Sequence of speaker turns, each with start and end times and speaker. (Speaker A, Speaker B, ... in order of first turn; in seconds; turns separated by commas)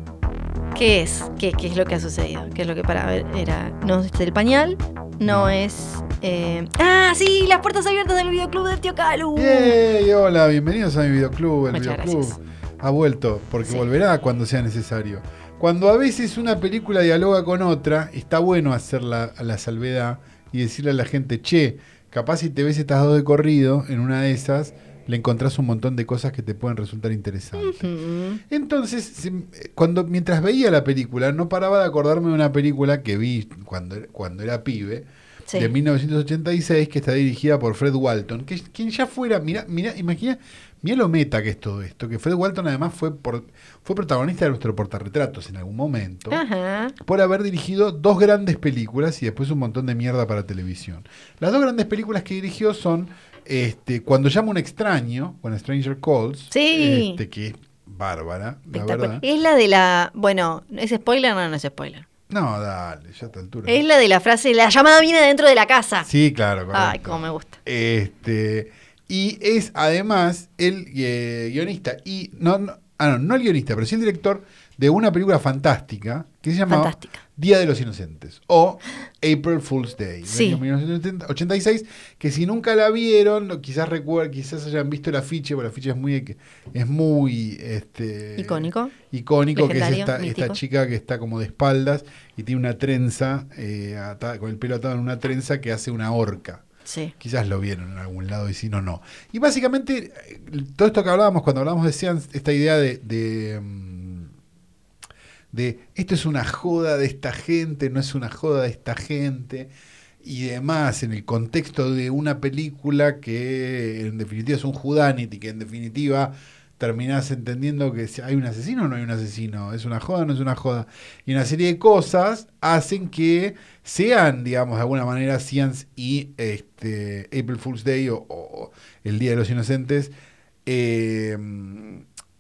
Speaker A: 0.7-9.8, Speaker B: 5.2-5.5, Speaker B: 9.3-27.9, Speaker A: 11.7-12.4, Speaker A: 27.6-28.4, Speaker B: 28.5-46.4, Speaker A: 46.3-46.9, Speaker B: 47.0-59.2, Speaker A: 56.5-57.2, Speaker A: 58.7-62.0, Speaker B: 62.3-63.8, Speaker A: 63.7-66.1, Speaker B: 66.0-96.6, Speaker A: 66.7-67.5, Speaker A: 76.7-77.2, Speaker A: 80.3-80.6, Speaker A: 88.4-88.9, Speaker A: 89.5-90.6, Speaker A: 96.8-97.1, Speaker B: 97.2-104.3, Speaker B: 105.5-109.7, Speaker B: 110.2-130.1, Speaker B: 130.7-132.0